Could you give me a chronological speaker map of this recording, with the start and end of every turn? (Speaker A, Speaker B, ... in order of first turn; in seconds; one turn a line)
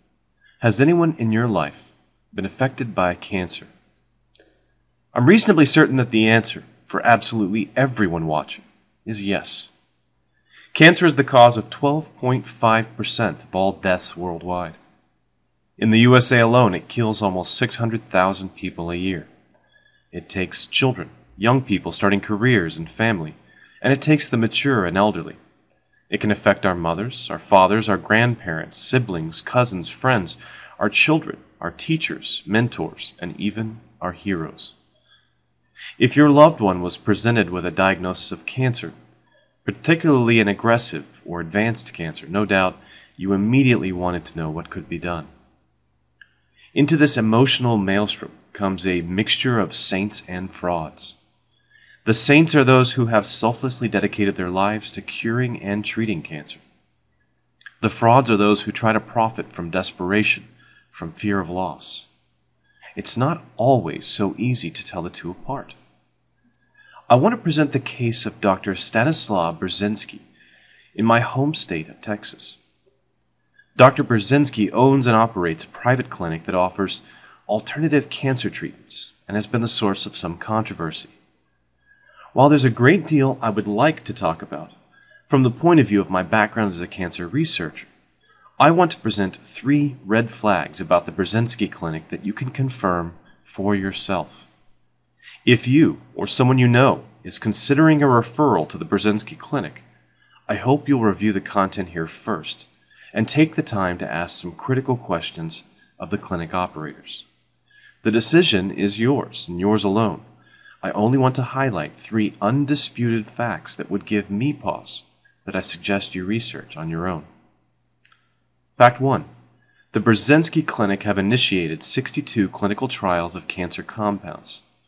Speaker A: 0.6-3.7
Speaker A: 5.1-9.7
Speaker A: 10.7-14.8
Speaker A: 15.8-19.3
Speaker A: 20.1-25.4
Speaker A: 26.1-34.8
Speaker A: 36.0-38.9
Speaker A: 39.6-45.3
Speaker A: 46.7-51.2
Speaker A: 52.0-56.6
Speaker A: 57.8-62.1
Speaker A: 63.0-65.8
Speaker A: 67.1-70.3
Speaker A: 70.9-72.6
Speaker A: 73.8-81.1
Speaker A: 82.3-84.7
Speaker A: 85.3-87.9
Speaker A: 88.6-94.5
Speaker A: 95.4-99.8
Speaker A: 100.5-107.2
Speaker A: 108.0-110.2
Speaker A: 110.8-117.3
Speaker A: 118.8-119.3
Speaker A: 119.9-124.6